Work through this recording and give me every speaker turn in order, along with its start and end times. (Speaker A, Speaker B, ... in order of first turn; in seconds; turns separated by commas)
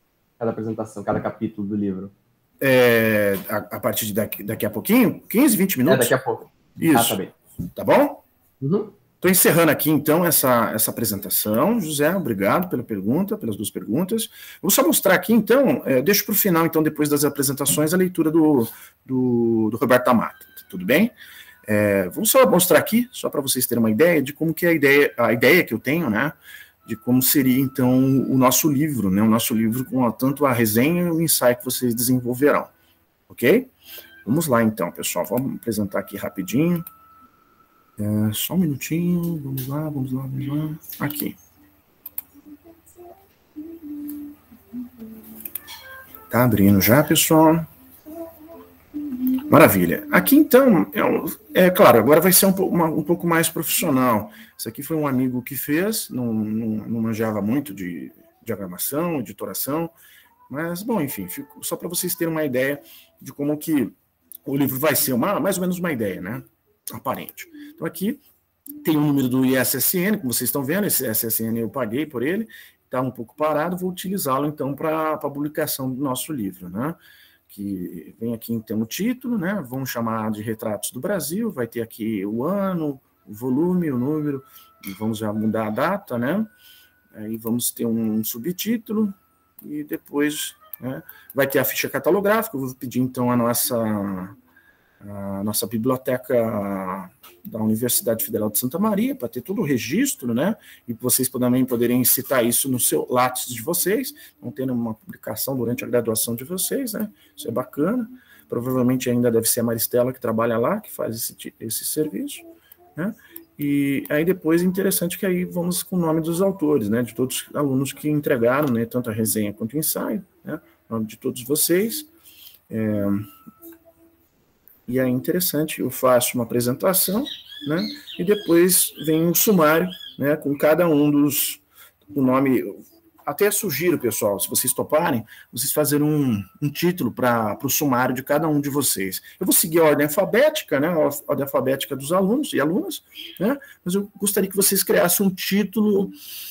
Speaker A: 0.4-2.1, Speaker B: 2.6-6.1, Speaker A: 5.9-7.3, Speaker B: 6.8-8.2, Speaker A: 8.6-8.9, Speaker B: 9.2-21.1, Speaker B: 21.6-32.7, Speaker B: 33.3-33.7, Speaker B: 34.2-36.9, Speaker B: 38.0-41.4, Speaker B: 46.3-47.7, Speaker B: 49.5-59.9, Speaker B: 60.5-68.2, Speaker B: 68.8-77.0, Speaker B: 77.5-86.5, Speaker B: 87.1-94.3, Speaker B: 95.0-122.1, Speaker B: 122.7-123.3, Speaker B: 124.9-146.2